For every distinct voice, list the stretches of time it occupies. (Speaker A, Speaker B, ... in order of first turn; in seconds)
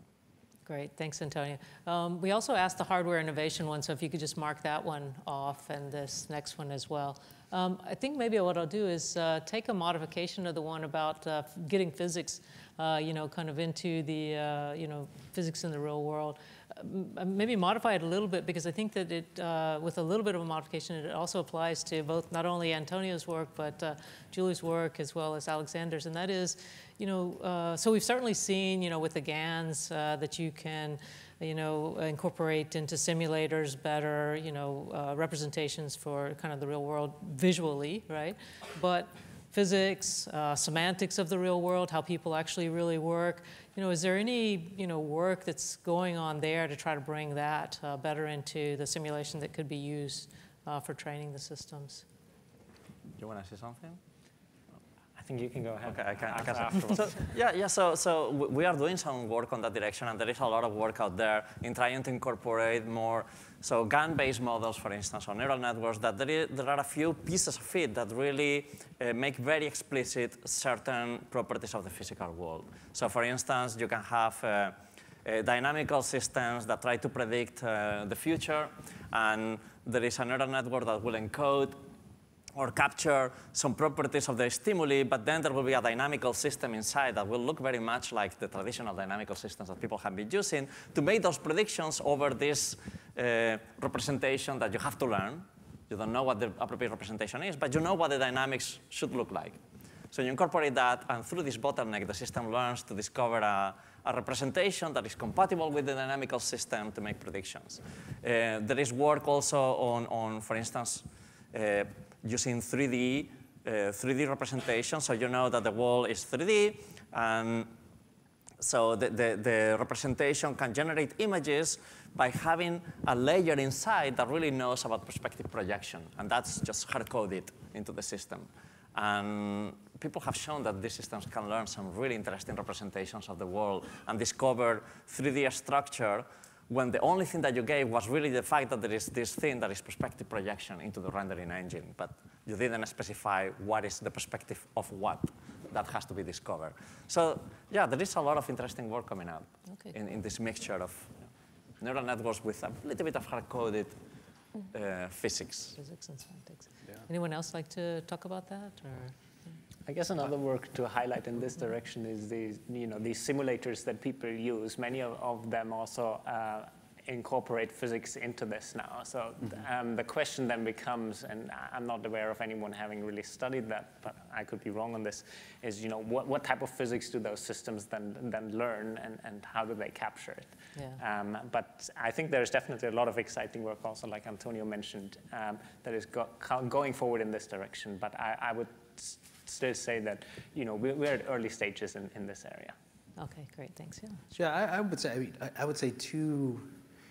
Speaker A: 0.7-52.0, 155.8-159.6, 180.8-181.0, 193.2-194.2
Speaker B: 53.2-54.0, 55.9-81.9, 82.5-99.6, 100.1-117.7, 118.6-151.2, 151.8-154.0, 154.7-155.8
Speaker C: 55.2-57.2, 159.8-192.8
Speaker D: 194.3-196.7